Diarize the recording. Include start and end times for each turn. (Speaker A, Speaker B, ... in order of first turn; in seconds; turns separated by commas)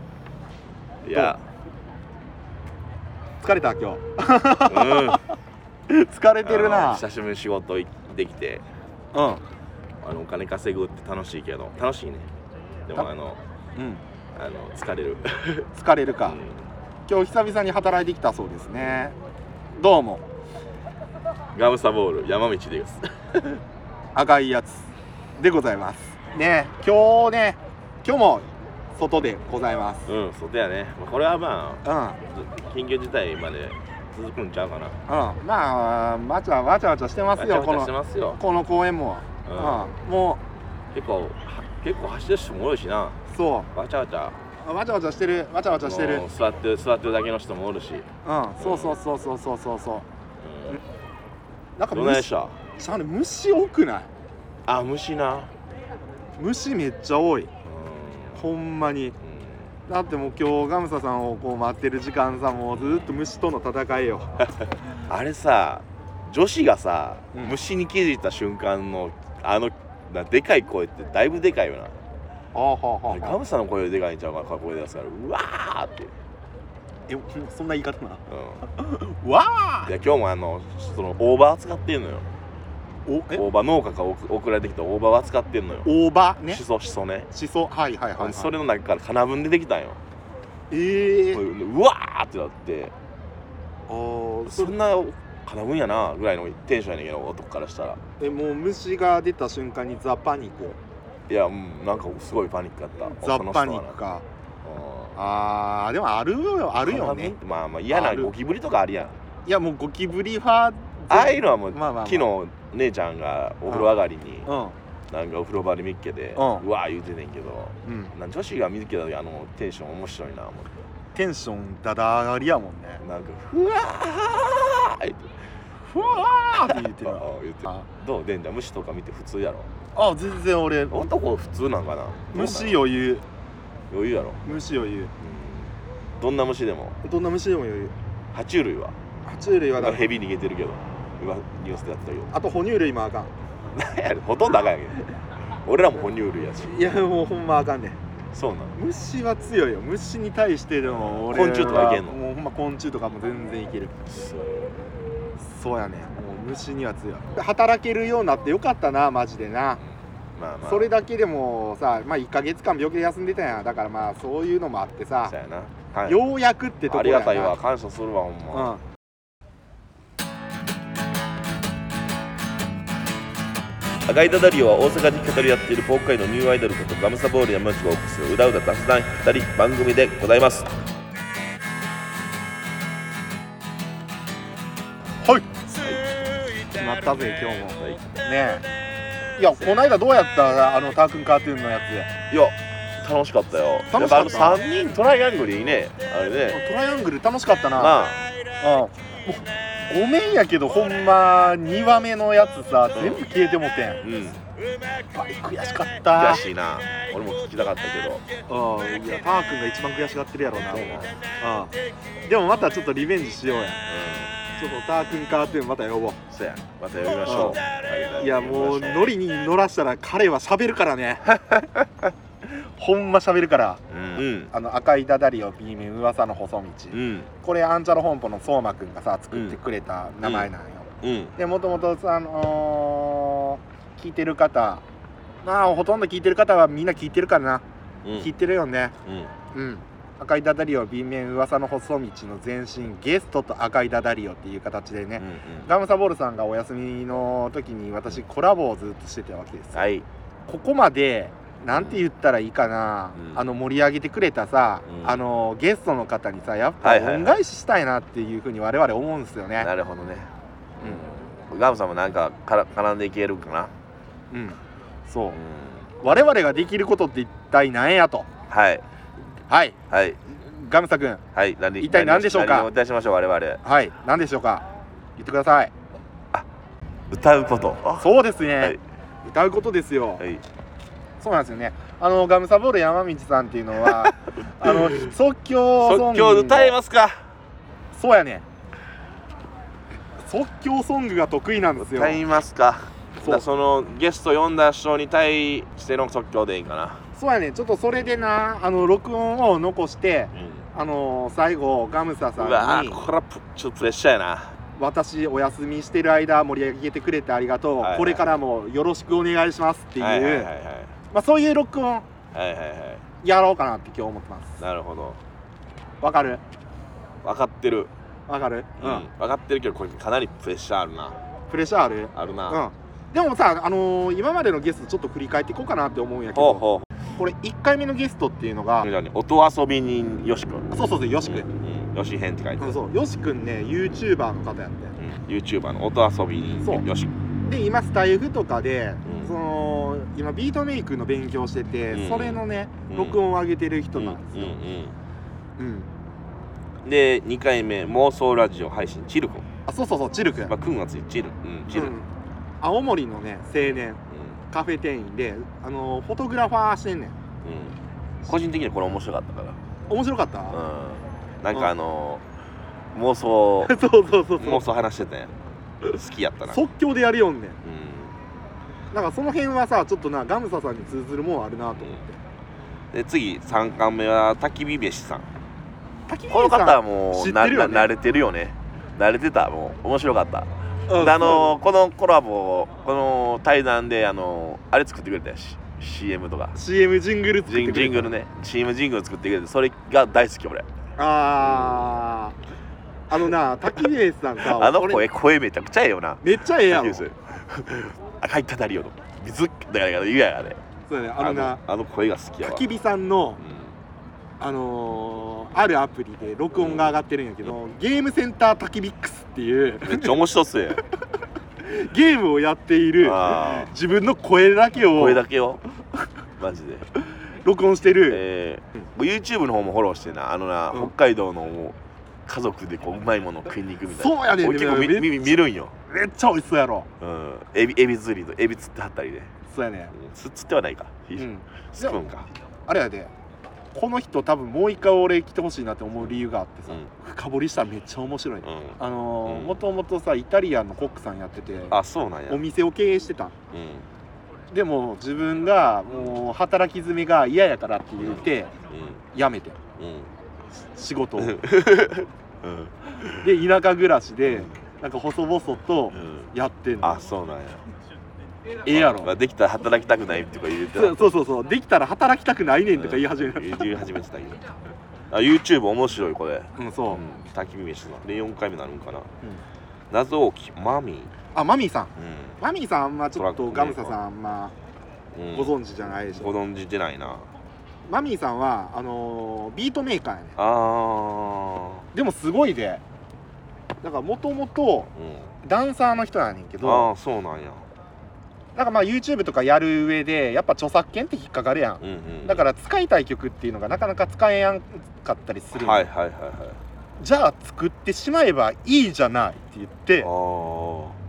Speaker A: 1.0-1.4, Speaker B: 3.4-5.3, Speaker A: 4.7-5.2, Speaker B: 5.9-7.0, Speaker A: 6.4-8.6, Speaker B: 9.1-9.4, Speaker A: 10.0-12.3, Speaker A: 12.8-13.4, Speaker B: 13.8-14.0, Speaker A: 14.3-15.7, Speaker B: 15.8-16.4, Speaker A: 16.2-16.6, Speaker B: 17.1-19.2, Speaker B: 19.8-20.2, Speaker A: 21.5-23.6, Speaker B: 24.1-30.1, Speaker A: 30.1-35.0, Speaker B: 31.8-32.2, Speaker B: 35.1-40.4, Speaker A: 37.4-38.4, Speaker A: 39.5-39.9, Speaker A: 40.9-43.2, Speaker B: 43.3-43.7, Speaker A: 43.7-44.4, Speaker B: 44.6-46.2, Speaker A: 45.7-48.1, Speaker B: 48.2-50.0, Speaker A: 48.6-49.0, Speaker A: 50.4-50.8, Speaker B: 51.8-54.1, Speaker A: 51.9-52.6, Speaker A: 54.7-55.5, Speaker B: 56.4-57.5, Speaker A: 57.6-58.4, Speaker B: 58.4-59.2, Speaker A: 59.2-59.6, Speaker B: 59.9-64.4, Speaker A: 62.7-63.1, Speaker A: 65.1-72.0, Speaker B: 72.5-73.4, Speaker A: 73.1-76.1, Speaker B: 77.1-79.9, Speaker A: 78.3-78.6, Speaker A: 79.9-82.3, Speaker B: 83.1-83.5, Speaker A: 83.3-85.9, Speaker B: 85.8-86.6, Speaker A: 86.5-87.3, Speaker B: 87.3-88.5, Speaker A: 88.2-90.0, Speaker B: 90.7-91.4, Speaker A: 91.3-92.9, Speaker B: 93.9-94.8, Speaker A: 94.5-98.0, Speaker B: 98.2-100.8, Speaker A: 101.3-104.0, Speaker B: 103.1-104.2, Speaker A: 104.6-105.2, Speaker B: 105.2-107.3, Speaker A: 106.8-109.2, Speaker B: 107.9-108.3, Speaker B: 109.5-112.3, Speaker A: 111.1-114.5, Speaker B: 113.7-113.9, Speaker B: 114.5-114.8, Speaker A: 115.1-120.7, Speaker B: 116.4-116.7, Speaker B: 117.8-118.1, Speaker B: 121.2-123.0, Speaker A: 123.0-125.3, Speaker B: 125.9-127.9, Speaker A: 126.0-129.7, Speaker B: 129.9-131.1, Speaker A: 130.9-132.8, Speaker B: 132.3-133.2, Speaker A: 133.9-134.4, Speaker B: 134.4-135.1, Speaker A: 135.2-137.0, Speaker B: 137.0-137.9, Speaker A: 138.3-139.0, Speaker B: 139.2-140.1, Speaker A: 139.8-142.3, Speaker B: 142.3-143.3, Speaker A: 143.7-145.1, Speaker A: 145.6-146.9, Speaker B: 146.7-148.0, Speaker A: 148.3-148.8, Speaker B: 148.8-154.0, Speaker A: 150.8-152.2, Speaker A: 154.1-154.8, Speaker B: 155.4-159.8, Speaker A: 160.3-160.9, Speaker B: 160.6-165.4, Speaker A: 165.3-166.2, Speaker B: 166.1-167.6, Speaker A: 166.9-168.8, Speaker B: 168.5-168.8, Speaker A: 174.1-180.7, Speaker B: 185.2-185.5, Speaker A: 185.7-186.2, Speaker B: 186.7-188.6, Speaker B: 189.4-192.1, Speaker A: 192.3-196.6, Speaker B: 193.9-194.6, Speaker B: 196.5-198.0, Speaker A: 197.8-198.2, Speaker B: 198.6-204.0, Speaker A: 202.9-203.3, Speaker A: 204.0-204.4, Speaker B: 205.1-206.4, Speaker A: 206.1-208.2, Speaker B: 208.5-211.8, Speaker A: 210.5-211.2, Speaker B: 212.3-213.8, Speaker A: 213.9-214.3, Speaker B: 214.6-216.2, Speaker A: 216.3-219.2, Speaker B: 217.2-217.6, Speaker B: 218.2-221.4, Speaker A: 221.5-222.1, Speaker B: 222.6-234.8, Speaker A: 223.9-224.5, Speaker A: 226.9-227.3, Speaker A: 229.3-229.6, Speaker A: 230.2-230.5, Speaker A: 231.0-231.3, Speaker B: 235.4-237.6, Speaker A: 238.0-238.3, Speaker B: 238.2-238.9, Speaker A: 239.1-239.3, Speaker B: 239.5-249.9, Speaker A: 245.2-245.7, Speaker A: 249.7-250.1, Speaker B: 250.5-259.7, Speaker A: 251.7-252.0, Speaker A: 253.2-253.4, Speaker A: 254.9-255.2, Speaker A: 256.8-257.4, Speaker A: 259.6-260.3, Speaker B: 260.8-261.1, Speaker A: 260.8-263.7, Speaker B: 264.3-265.4, Speaker A: 265.4-265.9, Speaker B: 266.0-268.3, Speaker A: 268.5-268.8, Speaker B: 269.5-269.8, Speaker A: 269.9-270.2, Speaker B: 270.3-271.2, Speaker A: 271.3-273.6, Speaker B: 271.8-272.7, Speaker B: 273.6-275.7, Speaker A: 277.1-278.8, Speaker B: 278.0-280.3, Speaker B: 281.2-286.8, Speaker A: 284.6-285.1, Speaker A: 285.8-287.2, Speaker B: 287.9-288.4, Speaker B: 290.2-292.2, Speaker A: 291.8-297.0, Speaker B: 293.2-293.4, Speaker B: 297.1-303.0, Speaker A: 298.0-298.3, Speaker A: 300.3-300.6, Speaker A: 302.4-304.6, Speaker B: 304.8-310.5, Speaker A: 307.8-308.3, Speaker A: 310.0-310.9, Speaker B: 311.1-312.1, Speaker A: 312.3-313.0, Speaker B: 313.2-314.6, Speaker A: 314.6-315.2, Speaker B: 316.0-316.4, Speaker A: 317.2-317.9, Speaker B: 318.3-319.1, Speaker A: 318.8-321.2, Speaker B: 321.5-326.6, Speaker A: 322.1-322.6, Speaker A: 326.3-326.9, Speaker B: 327.1-328.9, Speaker A: 328.8-330.7, Speaker B: 330.7-331.5, Speaker A: 331.2-332.8, Speaker B: 332.6-335.0, Speaker A: 335.0-337.1, Speaker B: 336.6-336.9, Speaker B: 337.4-344.6, Speaker A: 339.1-339.3, Speaker A: 341.9-343.2, Speaker A: 343.9-344.9, Speaker B: 345.6-345.9, Speaker A: 346.8-349.5, Speaker B: 349.7-350.6, Speaker A: 350.4-352.0, Speaker B: 351.7-352.1, Speaker B: 352.6-354.0, Speaker A: 353.6-354.4, Speaker B: 354.5-357.2, Speaker A: 357.4-359.6, Speaker B: 359.9-360.6, Speaker A: 360.5-362.2, Speaker A: 362.9-363.8, Speaker B: 363.6-364.7, Speaker A: 364.4-365.3, Speaker A: 365.9-366.6, Speaker B: 366.5-367.6, Speaker A: 367.6-368.1, Speaker B: 368.9-372.1, Speaker A: 372.9-375.3, Speaker B: 376.1-377.9, Speaker A: 376.3-386.6, Speaker B: 380.9-381.6, Speaker B: 386.6-388.1, Speaker A: 387.5-390.7, Speaker B: 391.0-392.4, Speaker A: 391.4-391.9, Speaker B: 393.1-395.1, Speaker A: 394.4-400.6, Speaker B: 396.2-397.1, Speaker B: 400.9-401.6, Speaker A: 401.2-402.7, Speaker B: 402.4-403.4, Speaker A: 403.4-403.8, Speaker B: 404.4-410.2, Speaker A: 406.6-407.5, Speaker A: 409.8-410.8, Speaker B: 411.6-415.2, Speaker A: 413.0-413.7, Speaker A: 414.9-415.6, Speaker A: 416.4-416.9, Speaker B: 417.4-418.2, Speaker A: 418.0-425.7, Speaker B: 423.9-426.9, Speaker A: 427.0-429.3, Speaker B: 429.5-429.9, Speaker A: 429.9-432.3, Speaker B: 431.2-432.1, Speaker B: 432.7-433.1, Speaker B: 433.7-443.4, Speaker A: 436.0-436.9, Speaker A: 438.4-439.6, Speaker A: 441.7-442.4, Speaker A: 443.5-443.9, Speaker B: 444.5-448.5, Speaker A: 448.0-449.0, Speaker B: 449.1-449.6, Speaker A: 449.8-450.1, Speaker B: 450.7-451.4, Speaker A: 451.2-453.3, Speaker B: 453.2-456.9, Speaker A: 454.3-454.5, Speaker A: 455.9-456.3, Speaker A: 456.8-457.6, Speaker B: 458.6-459.1, Speaker A: 458.7-461.1, Speaker B: 460.7-463.7, Speaker A: 462.7-464.4, Speaker A: 465.1-469.1, Speaker B: 466.6-467.0, Speaker A: 469.9-471.1, Speaker B: 471.3-474.5, Speaker A: 472.0-472.4, Speaker A: 473.2-473.9, Speaker A: 475.1-477.3, Speaker B: 475.3-476.3, Speaker B: 477.9-480.4, Speaker A: 480.4-481.8, Speaker B: 481.9-482.8, Speaker B: 483.8-484.9, Speaker A: 484.9-485.3, Speaker B: 485.4-486.9, Speaker A: 486.6-487.7, Speaker B: 488.6-495.9, Speaker A: 491.8-492.5, Speaker A: 495.5-496.6, Speaker B: 497.0-500.1, Speaker A: 500.0-501.0